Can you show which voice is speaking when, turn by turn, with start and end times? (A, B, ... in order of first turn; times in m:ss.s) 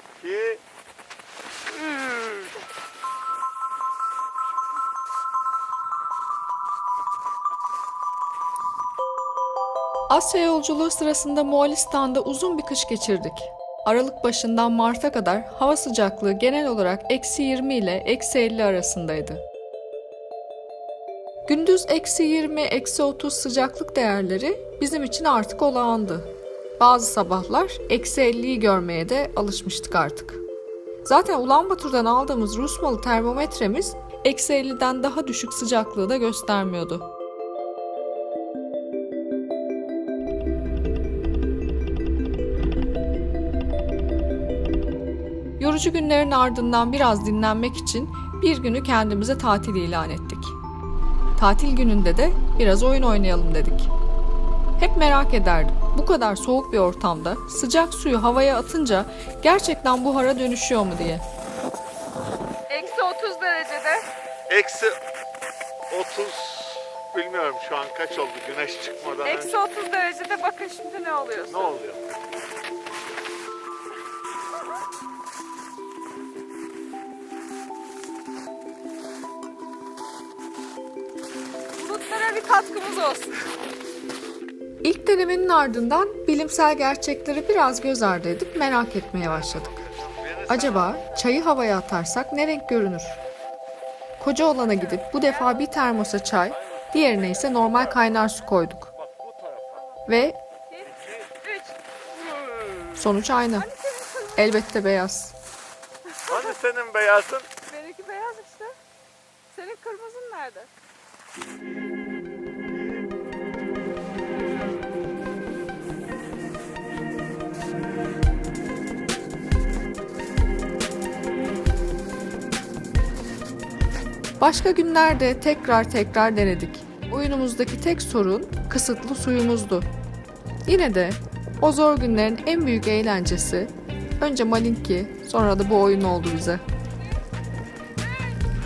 0:00.2-0:00.6 A
0:10.1-0:19.4 B
0:21.5-0:26.3 B
0:26.8-0:30.4 B
0:31.0-0:37.1 B
0:45.6-0:50.6 B
0:51.4-0:53.9 B
0:54.8-1:01.2 B
1:02.7-1:04.1 C
1:04.5-1:05.0 A
1:05.9-1:09.6 A
1:09.2-1:11.7 C
1:11.5-1:12.0 A
1:21.8-1:23.4 C
1:24.8-1:29.8 B
1:29.5-1:30.7 A
1:30.5-1:33.2 B
1:34.2-1:38.9 B
1:35.0-1:35.6 C
1:39.0-1:39.7 A
1:40.1-1:40.4 B
1:40.7-1:41.8 C
1:40.9-1:41.2 A
1:43.0-1:43.7 B
1:43.6-1:44.5 C
1:44.4-1:45.3 B
1:46.1-1:46.6 C
1:46.3-1:47.5 A
1:47.6-1:48.8 C
1:49.5-1:50.7 C
2:04.4-2:09.9 B
2:10.6-2:16.6 B